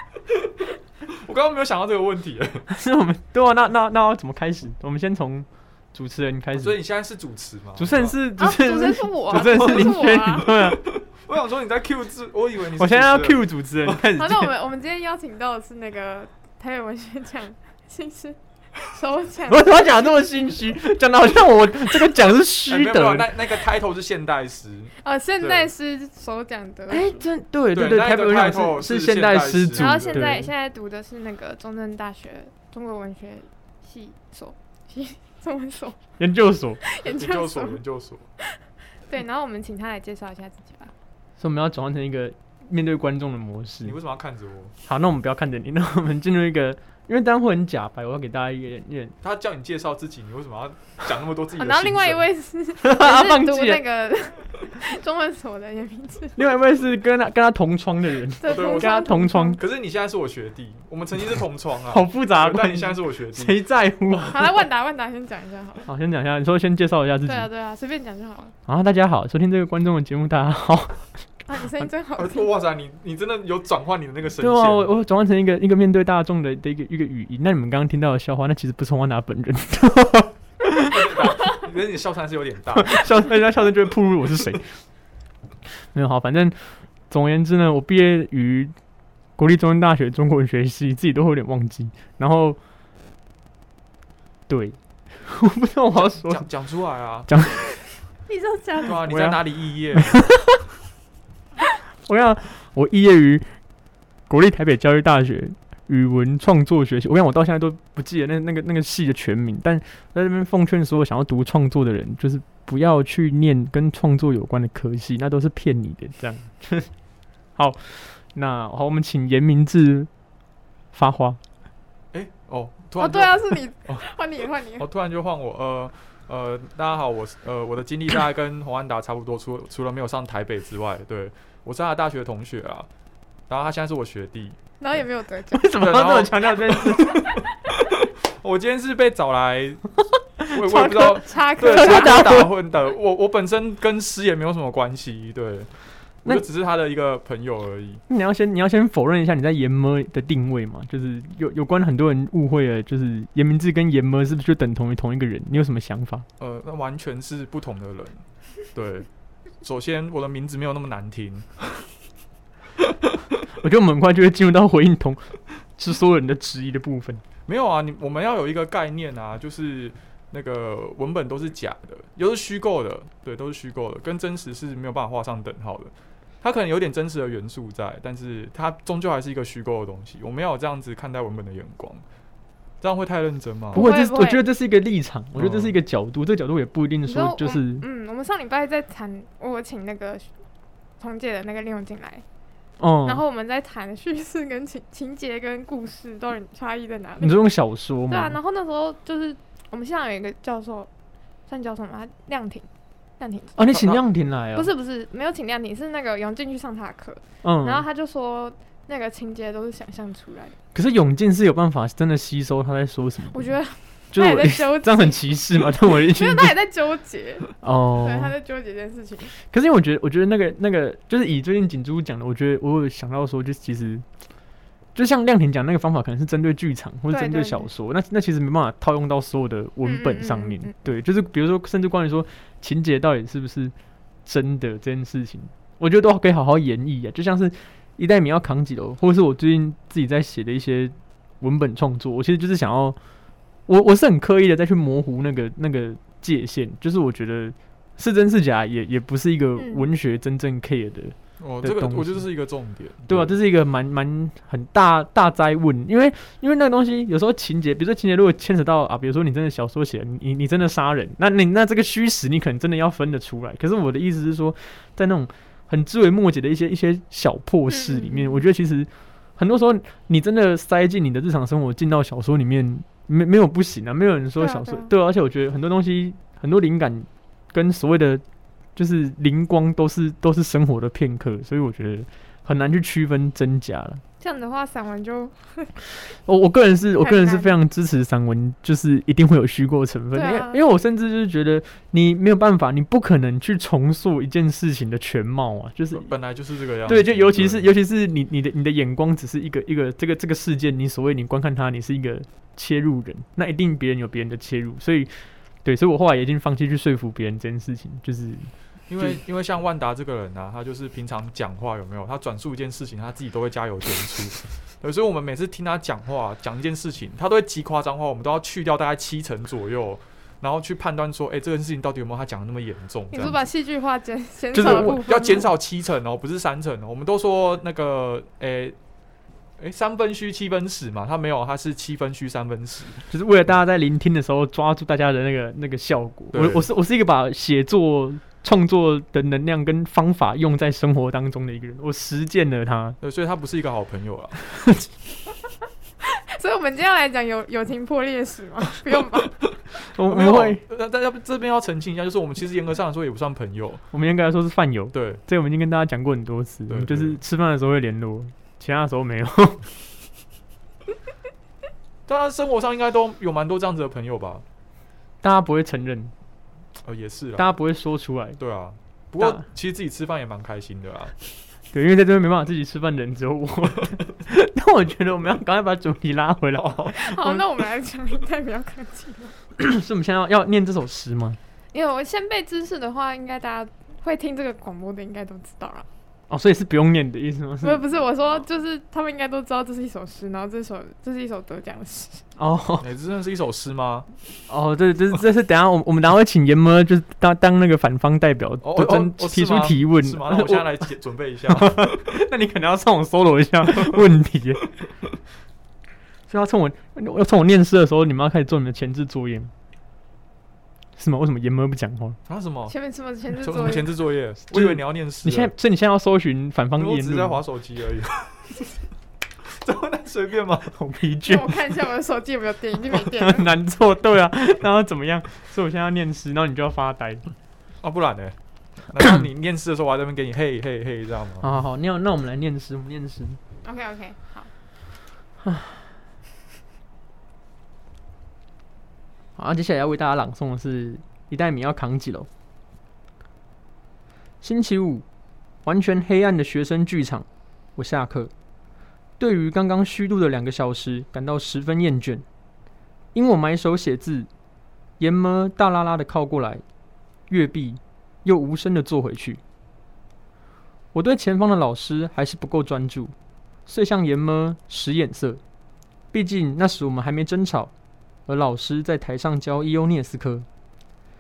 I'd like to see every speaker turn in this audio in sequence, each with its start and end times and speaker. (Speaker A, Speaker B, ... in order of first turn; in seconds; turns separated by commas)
Speaker A: 1.1-2.6, Speaker B: 2.7-6.8, Speaker A: 6.5-8.2, Speaker B: 7.8-10.8, Speaker C: 8.4-10.5, Speaker A: 10.5-14.0, Speaker B: 12.8-14.5, Speaker C: 14.2-19.9, Speaker B: 19.5-23.3, Speaker A: 22.7-25.7, Speaker C: 25.0-27.2, Speaker B: 26.9-30.5, Speaker A: 27.7-30.4, Speaker C: 29.8-36.0, Speaker B: 36.2-36.8, Speaker C: 36.8-37.8, Speaker A: 37.0-38.3, Speaker C: 39.1-40.9, Speaker B: 41.4-44.0, Speaker A: 43.9-44.7, Speaker B: 44.9-49.2, Speaker A: 49.2-52.3, Speaker C: 51.5-56.4, Speaker B: 52.8-53.8, Speaker B: 56.4-59.6, Speaker C: 58.4-59.6, Speaker A: 58.5-59.0, Speaker A: 59.6-63.6, Speaker B: 61.9-64.4, Speaker C: 64.3-65.9, Speaker B: 65.9-67.5, Speaker C: 67.3-68.5, Speaker B: 68.7-71.2, Speaker C: 71.5-72.5, Speaker A: 72.2-74.9, Speaker B: 74.4-81.0, Speaker A: 80.9-83.1, Speaker B: 82.8-84.7, Speaker B: 85.9-88.8, Speaker B: 89.4-92.6, Speaker B: 94.5-96.5, Speaker A: 96.0-97.3, Speaker B: 97.3-97.6, Speaker C: 98.3-99.0, Speaker A: 98.8-100.2, Speaker B: 99.1-99.4, Speaker B: 99.9-100.6, Speaker B: 102.1-103.6, Speaker B: 104.3-116.9, Speaker B: 117.6-120.1, Speaker B: 120.9-121.4, Speaker A: 122.1-124.0, Speaker C: 123.0-124.9, Speaker A: 124.8-132.9, Speaker A: 133.5-134.6, Speaker C: 134.8-135.7, Speaker B: 135.5-137.3, Speaker A: 135.8-139.9, Speaker B: 140.4-142.5, Speaker A: 140.5-145.7, Speaker C: 140.6-142.4, Speaker A: 146.2-148.0, Speaker B: 148.1-156.3, Speaker A: 156.4-159.1, Speaker A: 159.6-161.9, Speaker A: 162.8-163.1, Speaker B: 163.6-167.2, Speaker A: 167.5-182.0, Speaker A: 182.8-183.8, Speaker C: 183.7-184.4, Speaker B: 183.7-187.8, Speaker A: 185.4-185.8, Speaker C: 187.1-190.3, Speaker C: 191.0-192.2, Speaker B: 192.8-193.2, Speaker C: 193.1-197.4, Speaker B: 197.2-198.4, Speaker C: 198.1-200.9, Speaker C: 201.5-202.7, Speaker C: 203.2-203.6, Speaker B: 203.6-204.7, Speaker A: 203.7-204.0, Speaker C: 204.6-210.6, Speaker B: 207.4-207.8, Speaker B: 210.7-213.6, Speaker C: 213.3-219.3, Speaker B: 214.1-216.5, Speaker B: 217.6-218.3, Speaker B: 219.3-224.1, Speaker B: 224.9-233.7, Speaker C: 227.1-227.7, Speaker C: 229.8-230.8, Speaker B: 234.3-243.0, Speaker B: 243.7-252.2, Speaker C: 249.6-249.9, Speaker A: 251.4-253.3, Speaker B: 253.1-278.2, Speaker C: 267.7-268.4, Speaker C: 274.4-274.9, Speaker B: 278.8-284.0, Speaker C: 284.2-285.7, Speaker B: 286.2-296.1, Speaker C: 287.0-287.6, Speaker C: 290.1-290.6, Speaker A: 295.9-297.7, Speaker B: 296.9-309.2, Speaker A: 308.9-323.4, Speaker C: 323.1-325.5, Speaker B: 324.5-325.1, Speaker A: 324.6-328.8, Speaker A: 329.6-333.1, Speaker B: 333.1-343.0, Speaker A: 336.3-336.7, Speaker A: 343.0-344.4, Speaker C: 346.0-349.4, Speaker B: 349.8-350.6, Speaker A: 350.1-353.8, Speaker B: 353.9-359.6, Speaker A: 354.9-355.2, Speaker A: 356.7-357.2, Speaker A: 362.1-364.4, Speaker B: 365.2-366.1, Speaker A: 366.8-367.5, Speaker B: 367.4-368.4, Speaker A: 368.4-371.2, Speaker B: 369.2-369.4, Speaker B: 371.7-377.4, Speaker A: 376.6-376.9, Speaker C: 376.9-379.4, Speaker B: 379.6-381.4, Speaker C: 381.7-385.9, Speaker B: 386.3-387.8, Speaker C: 387.6-392.3, Speaker B: 392.4-392.9, Speaker A: 392.8-394.1, Speaker B: 394.5-400.8, Speaker A: 398.6-402.0, Speaker B: 401.5-404.7, Speaker A: 403.8-404.0, Speaker B: 406.3-409.5, Speaker B: 411.0-412.2, Speaker A: 412.3-412.7, Speaker C: 412.7-413.9, Speaker A: 413.4-415.5, Speaker B: 414.5-417.4, Speaker A: 416.8-418.5, Speaker A: 419.4-420.8, Speaker B: 420.8-421.6, Speaker C: 421.3-423.5, Speaker B: 423.1-427.2, Speaker A: 427.8-428.4, Speaker A: 428.9-431.5, Speaker B: 431.4-433.4, Speaker C: 433.6-434.5, Speaker B: 435.4-435.9, Speaker B: 439.4-442.3, Speaker B: 444.4-445.1, Speaker B: 445.6-448.3, Speaker B: 449.2-452.2, Speaker B: 453.1-454.3, Speaker B: 455.0-456.6, Speaker B: 457.3-459.4, Speaker B: 460.9-463.1, Speaker B: 463.7-465.4, Speaker B: 466.1-467.7, Speaker B: 468.3-470.5